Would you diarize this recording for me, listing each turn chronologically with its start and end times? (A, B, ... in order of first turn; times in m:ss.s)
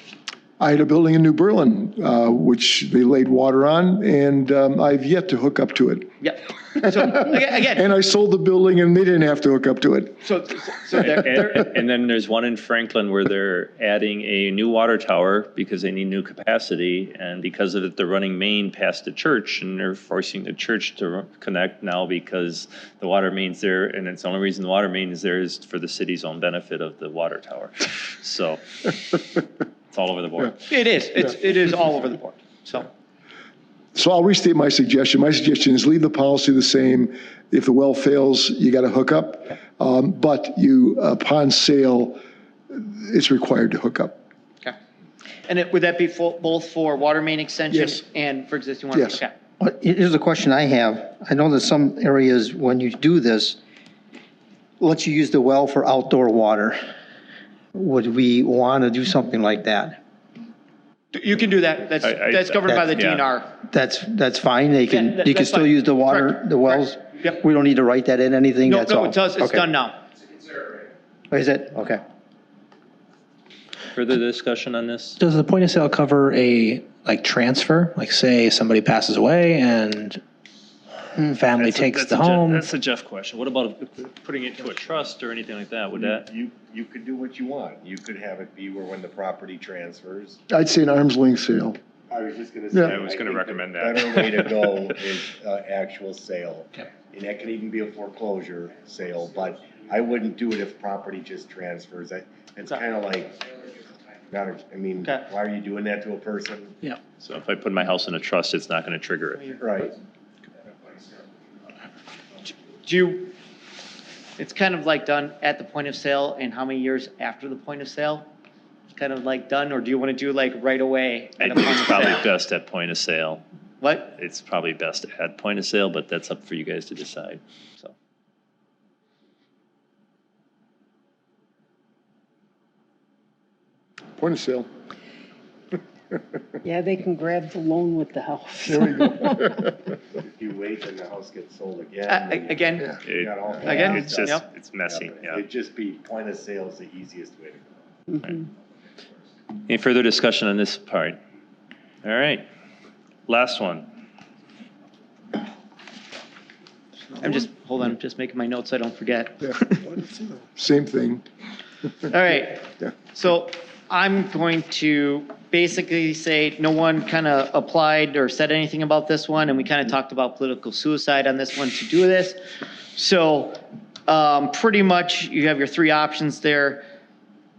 0:00.6-0:06.1 A
0:06.2-0:07.9 B
0:06.8-0:10.3 A
0:10.2-0:11.6 B
0:11.0-0:29.4 C
0:29.9-0:30.6 C
0:30.7-0:32.9 B
0:33.9-0:44.2 A
0:45.5-0:49.3 B
0:47.7-0:48.0 A
0:48.9-0:49.2 A
0:49.6-0:53.6 D
0:54.8-0:56.8 D
0:57.7-1:00.0 D
1:01.1-1:03.5 B
1:02.0-1:03.2 C
1:03.7-1:09.6 D
1:04.9-1:07.4 B
1:08.7-1:10.0 B
1:11.3-1:12.0 D
1:13.9-1:15.2 C
1:15.2-1:20.2 E
1:21.3-1:22.6 E
1:21.5-1:26.3 C
1:26.0-1:30.4 F
1:30.5-1:31.8 A
1:32.1-1:43.5 F
1:32.8-1:34.6 C
1:44.3-1:46.7 F
1:47.2-1:49.6 C
1:49.6-1:50.0 F
1:52.5-1:53.3 B
1:54.4-1:58.3 B
1:58.9-2:02.2 B
2:01.4-2:03.4 C
2:03.8-2:04.2 B
2:04.1-2:07.4 C
2:14.2-2:14.7 A
2:16.6-2:19.6 G
2:18.7-2:19.7 A
2:20.2-2:24.3 F
2:22.1-2:22.9 B
2:23.0-2:25.4 C
2:23.6-2:24.4 B
2:24.9-2:27.6 F
2:29.7-2:31.2 C
2:32.0-2:32.5 C
2:33.3-2:33.9 C
2:37.2-2:39.9 B
2:40.0-2:41.2 A
2:42.1-2:52.4 B
2:52.9-2:56.8 B